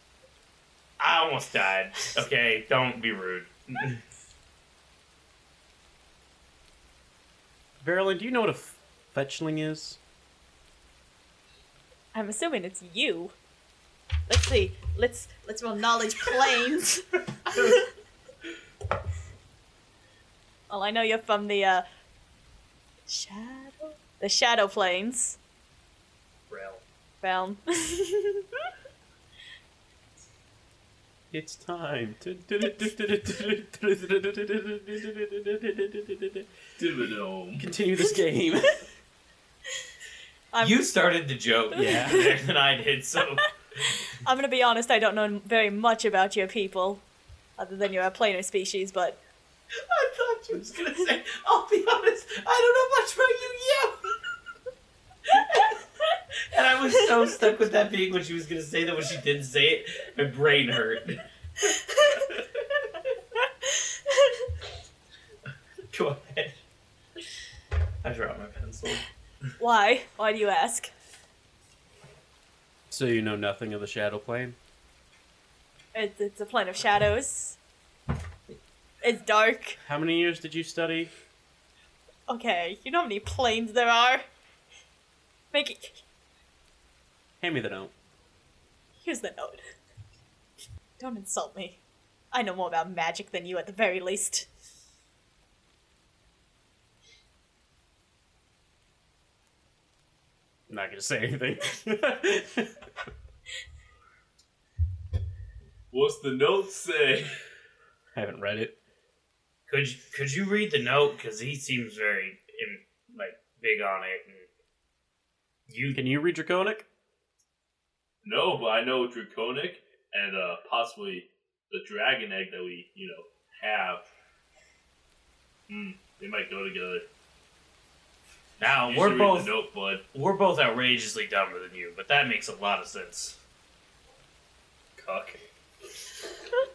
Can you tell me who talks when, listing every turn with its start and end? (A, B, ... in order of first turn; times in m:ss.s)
0:01.0-0:04.0 A
0:07.8-0:10.0 B
0:12.1-0:13.3 C
0:14.3-0:17.2 C
0:20.7-0:21.8 C
0:23.1-0:25.4 C
0:26.5-0:26.8 A
0:27.2-0:28.5 C
0:31.3-0:36.5 B
0:36.8-0:37.7 D
0:37.6-0:38.8 B
0:40.5-0:40.9 C
0:40.6-0:43.5 A
0:41.7-0:42.4 C
0:41.7-0:42.3 B
0:44.1-0:47.0 C
0:47.6-0:49.2 C
0:49.8-0:54.0 A
0:55.3-0:55.7 A
0:56.5-1:01.2 A
1:03.7-1:04.5 C
1:05.9-1:06.6 A
1:08.0-1:09.0 A
1:09.6-1:10.9 C
1:12.9-1:14.6 B
1:15.9-1:17.6 C
1:19.0-1:19.8 C
1:19.8-1:21.1 B
1:22.3-1:24.2 C
1:25.5-1:26.0 C
1:27.4-1:27.9 B
1:29.0-1:29.6 C
1:31.0-1:31.8 C
1:32.3-1:34.5 C
1:40.7-1:42.8 B
1:45.9-1:47.3 D
1:48.2-1:48.8 B
1:49.7-1:54.5 A
1:55.7-1:56.0 A
1:55.9-1:56.9 B
1:58.2-2:04.1 D
2:05.7-2:07.0 D
2:08.6-2:09.6 A
2:08.6-2:10.0 D
2:10.1-2:13.4 A
2:15.0-2:15.4 D